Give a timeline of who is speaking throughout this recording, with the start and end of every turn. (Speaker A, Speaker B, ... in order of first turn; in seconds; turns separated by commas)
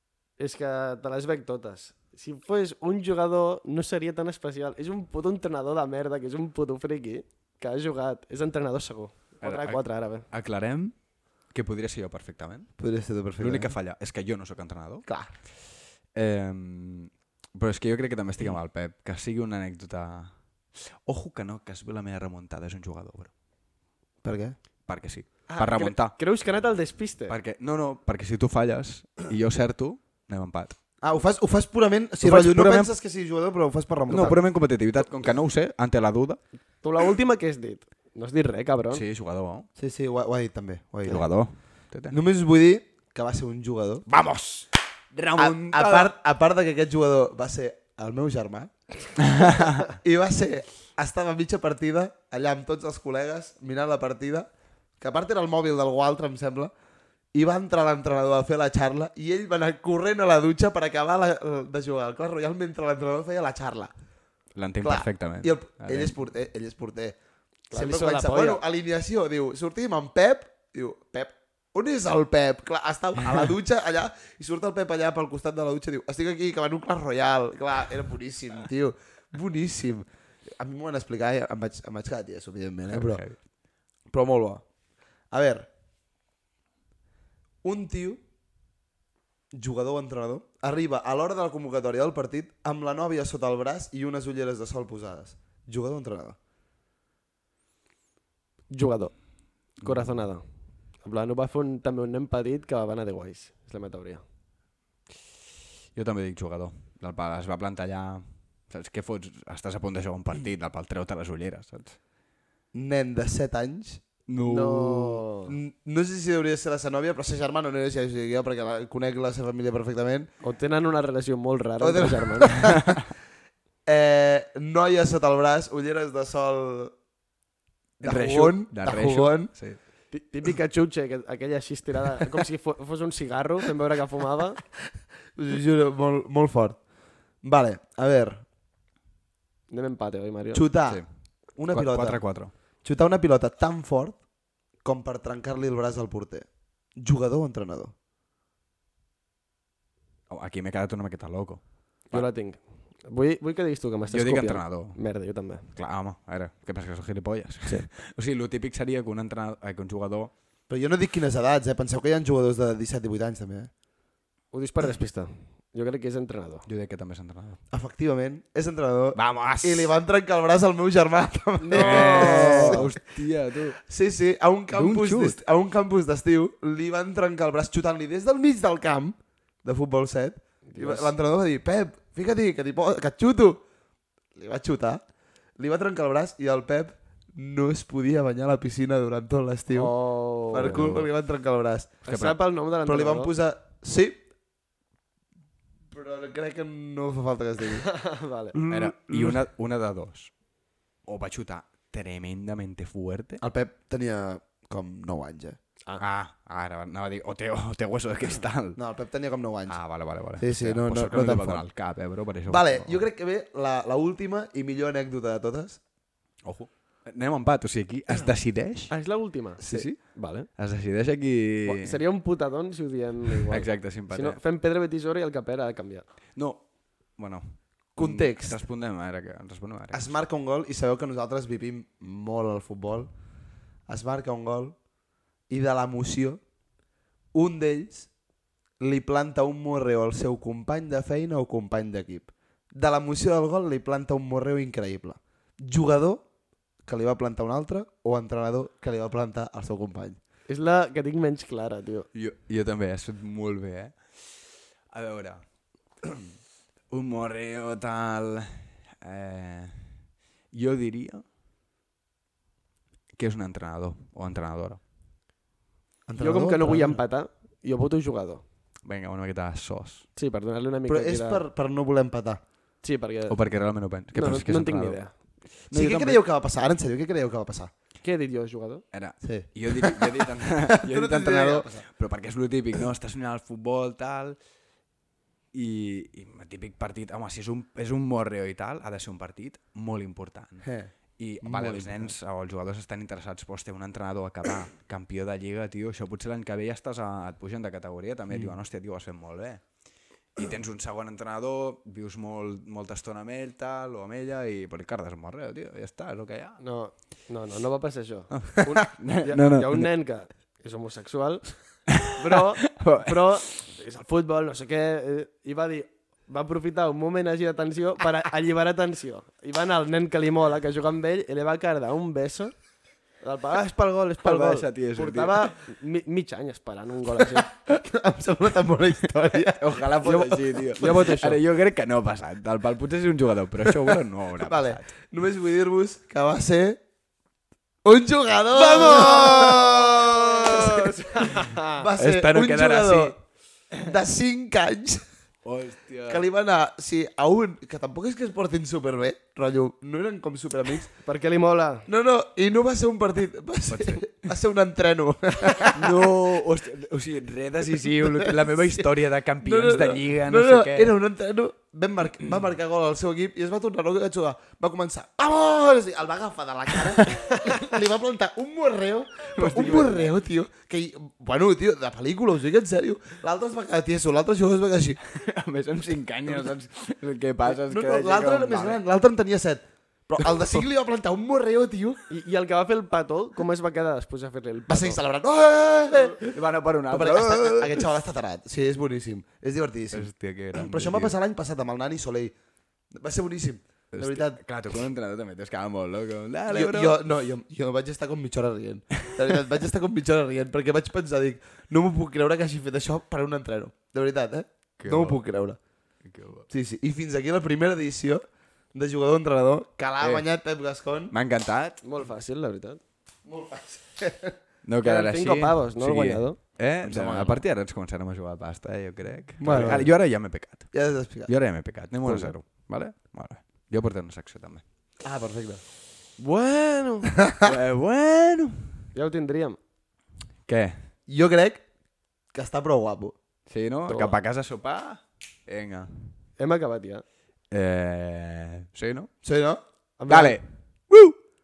Speaker A: 0.4-10.3, Speaker B: 9.4-10.9, Speaker B: 11.5-12.7, Speaker C: 12.8-13.7, Speaker B: 13.4-15.1, Speaker C: 15.1-15.3, Speaker B: 16.1-23.3, Speaker C: 24.2-24.6, Speaker B: 24.9-26.2, Speaker A: 25.5-27.3, Speaker B: 27.3-30.8, Speaker C: 31.0-34.4, Speaker B: 32.2-32.9, Speaker B: 34.1-36.4, Speaker A: 36.8-39.0, Speaker B: 38.9-39.7, Speaker C: 39.8-41.3, Speaker B: 41.0-42.2, Speaker C: 42.1-44.0, Speaker B: 44.1-46.1, Speaker C: 45.4-48.7, Speaker B: 49.2-49.9, Speaker C: 49.4-54.5, Speaker C: 55.0-56.7, Speaker C: 57.3-63.9, Speaker B: 64.5-66.1, Speaker C: 64.8-67.2, Speaker A: 67.7-68.6, Speaker C: 67.7-83.2, Speaker B: 82.9-83.4, Speaker C: 84.1-84.6, Speaker C: 85.3-85.7, Speaker C: 87.6-88.2, Speaker C: 89.5-96.4, Speaker A: 98.7-99.2, Speaker A: 99.8-100.4, Speaker A: 101.0-104.2, Speaker B: 105.9-112.0, Speaker C: 112.7-114.0, Speaker B: 114.3-115.2, Speaker A: 114.4-115.5, Speaker C: 115.5-120.3, Speaker A: 120.4-122.7, Speaker C: 121.8-123.0, Speaker C: 123.8-126.9, Speaker C: 128.0-129.5, Speaker B: 128.0-129.8, Speaker A: 130.1-134.6, Speaker C: 135.3-136.8, Speaker C: 137.4-138.4, Speaker A: 139.7-140.7, Speaker C: 140.5-141.0, Speaker C: 141.6-142.2, Speaker B: 141.7-142.5, Speaker C: 142.8-144.2, Speaker C: 144.8-146.4, Speaker C: 147.0-147.9, Speaker B: 150.3-152.3, Speaker A: 152.1-155.7, Speaker B: 154.1-155.0, Speaker B: 155.7-160.3, Speaker C: 160.7-163.7, Speaker A: 164.5-166.6, Speaker B: 166.7-167.6, Speaker C: 167.7-172.9, Speaker B: 169.2-169.9, Speaker A: 171.6-172.9, Speaker B: 171.7-173.8, Speaker C: 173.8-183.6, Speaker B: 174.7-175.4, Speaker A: 180.7-181.1, Speaker C: 184.3-185.0, Speaker C: 185.6-189.9, Speaker A: 189.7-190.9, Speaker C: 190.5-192.0, Speaker B: 190.5-191.1, Speaker A: 192.0-193.3, Speaker B: 192.1-192.4, Speaker C: 192.8-194.2, Speaker C: 195.9-197.9, Speaker A: 197.9-198.6, Speaker C: 198.5-199.4, Speaker B: 198.7-200.3, Speaker B: 201.1-203.4, Speaker C: 203.4-205.6, Speaker B: 206.0-208.8, Speaker C: 208.8-209.8, Speaker B: 209.7-213.0, Speaker C: 210.4-211.7, Speaker C: 212.5-215.8, Speaker B: 216.4-218.9, Speaker A: 218.9-220.5, Speaker B: 219.6-222.0, Speaker A: 221.6-226.0, Speaker B: 223.5-224.4, Speaker B: 226.3-226.6, Speaker B: 227.2-230.1, Speaker C: 227.9-228.6, Speaker C: 229.9-233.1, Speaker C: 233.9-234.8, Speaker C: 235.5-236.4, Speaker C: 237.3-238.1, Speaker C: 238.8-246.2, Speaker C: 246.8-250.2, Speaker A: 250.5-252.1, Speaker B: 252.1-255.4, Speaker B: 256.9-260.0, Speaker B: 260.5-261.2, Speaker B: 263.1-264.8, Speaker C: 266.1-267.0, Speaker A: 266.2-268.4, Speaker B: 268.8-270.1, Speaker A: 270.1-271.4, Speaker C: 270.9-272.4, Speaker A: 272.8-273.4, Speaker B: 273.3-275.0, Speaker A: 274.1-275.1, Speaker B: 275.7-276.2, Speaker C: 275.7-277.7, Speaker A: 278.0-278.8, Speaker B: 278.9-284.4, Speaker C: 279.2-281.8, Speaker B: 285.5-299.6, Speaker C: 290.6-292.1, Speaker B: 300.3-306.6, Speaker A: 306.6-322.5, Speaker B: 308.3-309.9, Speaker B: 311.9-313.5, Speaker A: 323.2-327.5, Speaker B: 324.2-325.5, Speaker C: 327.7-329.9, Speaker B: 329.5-334.9, Speaker A: 330.0-331.4, Speaker C: 334.4-336.8, Speaker C: 337.8-343.2, Speaker A: 338.5-341.8, Speaker B: 342.0-343.2, Speaker C: 343.8-345.0, Speaker B: 345.4-346.2, Speaker C: 346.1-350.9, Speaker A: 351.0-351.9, Speaker C: 351.9-356.1, Speaker B: 353.7-354.2, Speaker B: 355.6-360.9, Speaker C: 357.9-358.8, Speaker C: 359.4-375.0, Speaker B: 369.4-370.1, Speaker B: 375.1-378.8, Speaker C: 377.4-382.0, Speaker A: 382.1-385.0, Speaker C: 384.7-386.2, Speaker B: 386.1-387.9, Speaker C: 386.9-392.3, Speaker B: 389.9-391.1, Speaker C: 393.0-394.4, Speaker B: 393.9-397.0, Speaker C: 396.5-405.6, Speaker B: 399.0-399.4, Speaker B: 404.8-405.2, Speaker B: 406.0-406.5, Speaker C: 406.5-411.1, Speaker B: 410.0-410.2, Speaker B: 411.1-411.8, Speaker A: 411.8-412.8, Speaker C: 413.2-414.3, Speaker B: 414.6-424.6, Speaker A: 414.8-416.4, Speaker C: 416.8-417.4, Speaker C: 419.4-419.9, Speaker C: 420.7-421.3, Speaker A: 422.0-422.3, Speaker C: 425.0-425.6, Speaker A: 426.2-427.1, Speaker C: 427.2-427.6, Speaker B: 427.4-428.9, Speaker A: 428.9-429.6, Speaker B: 430.4-430.9, Speaker C: 431.1-431.6, Speaker C: 432.3-433.1, Speaker B: 433.5-436.1, Speaker A: 433.9-434.2, Speaker A: 436.4-437.0, Speaker B: 437.5-439.1, Speaker C: 439.2-439.6, Speaker A: 440.0-440.4, Speaker B: 440.1-441.1